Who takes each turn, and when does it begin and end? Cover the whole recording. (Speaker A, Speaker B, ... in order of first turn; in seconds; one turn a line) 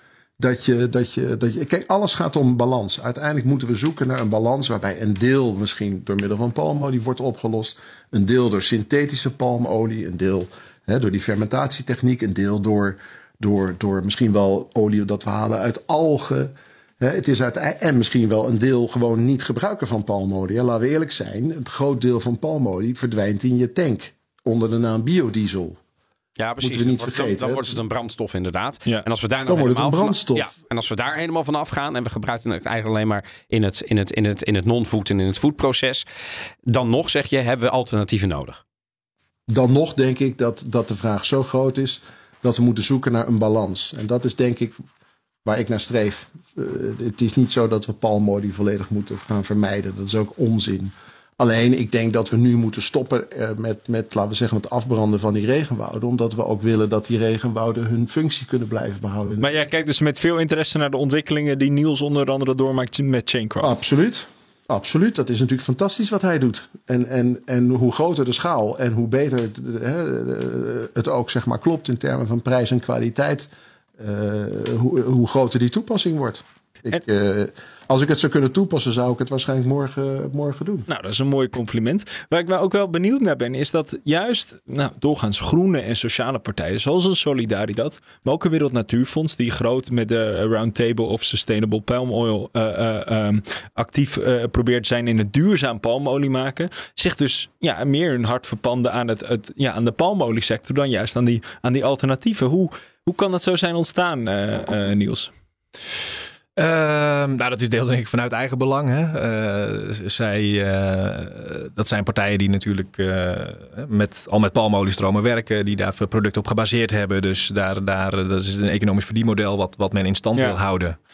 Speaker A: 0.4-25.8
Speaker B: 26.4-36.0
Speaker A: 26.6-27.8
Speaker A: 29.5-30.5
Speaker B: 36.7-38.6
Speaker A: 39.5-44.8
Speaker A: 45.5-59.5
Speaker C: 59.4-63.8
Speaker A: 63.6-80.9
Speaker C: 80.9-105.3
Speaker D: 106.6-121.0